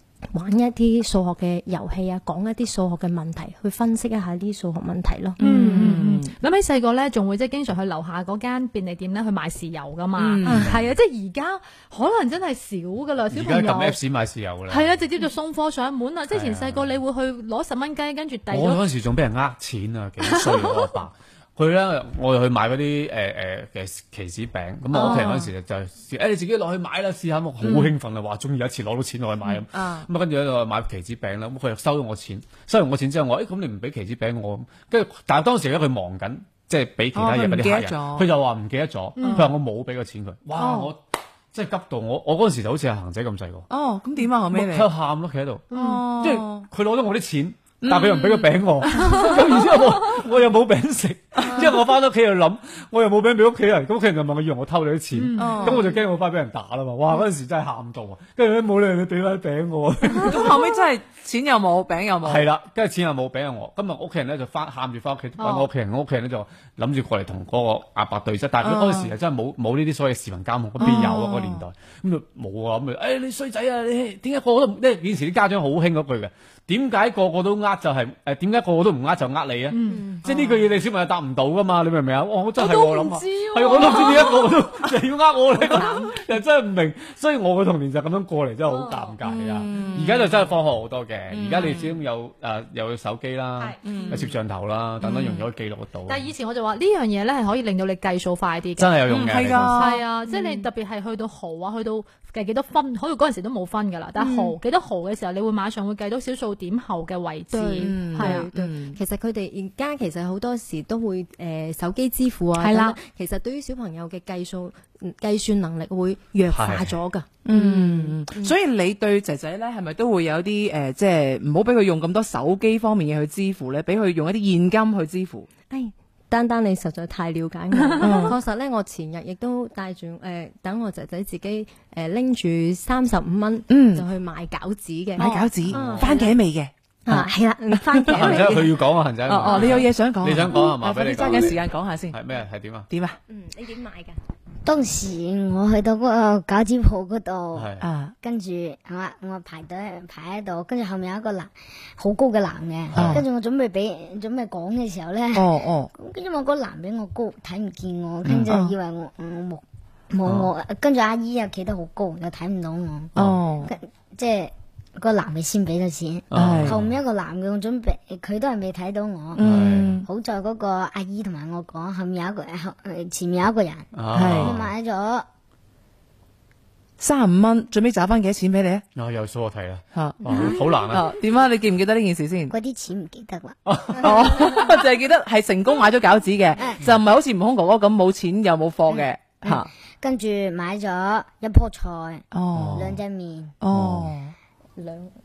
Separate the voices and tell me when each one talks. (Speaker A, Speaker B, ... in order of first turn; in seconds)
Speaker A: 0.3-6.0, 100.2-100.7, 104.2-104.5, 107.5-118.5, 125.7-136.4, 137.0-138.7, 143.3-144.2, 194.8-195.1
Speaker B: 5.4-6.3, 10.2-10.7, 24.9-25.5, 27.6-27.9, 29.4-30.1, 37.1-38.3, 39.2-39.5, 43.7-44.9, 45.7-46.7, 47.8-49.3, 51.4-51.7, 55.4-55.9, 60.1-62.5, 68.6-69.1, 70.8-71.6, 80.2-80.7, 89.2-90.5, 91.3-92.0, 93.8-94.3, 95.0-95.5, 99.1-100.0, 107.8-109.0, 117.4-125.5, 128.0-128.4, 133.7-134.0, 135.2-138.7, 139.3-142.2, 142.9-143.2, 147.8-148.1, 152.9-153.2, 155.3-155.9, 158.5-158.7, 163.2-163.7, 166.3-166.8, 169.3-170.1, 174.1-174.6, 177.0-178.8, 179.9-182.5, 184.0-189.7, 192.3-192.9, 193.6-194.3
Speaker C: 5.4-14.0, 14.7-18.8, 20.2-20.9, 39.2-39.5, 40.6-40.9, 45.7-46.0, 48.9-50.2, 55.1-56.0, 65.4-65.7, 79.7-80.2, 82.6-84.6, 85.8-86.1, 88.7-89.1, 93.6-94.2, 96.1-108.5, 112.6-113.0, 127.8-128.3
Speaker D: 10.5-10.8, 13.3-14.9, 16.3-17.0, 18.5-41.0, 41.5-43.7, 44.5-60.6, 62.2-96.3, 98.8-99.8, 116.5-117.0, 135.7-136.2, 138.1-142.9, 147.5-147.9, 152.9-153.2, 158.2-158.5, 166.3-167.0, 169.4-170.0, 173.9-174.7, 178.9-181.1, 183.7-184.6, 192.5-193.0, 193.7-194.1
Speaker E: 144.6-147.7, 148.2-163.1, 163.6-169.4, 170.1-175.2, 182.5-184.1, 188.9-193.5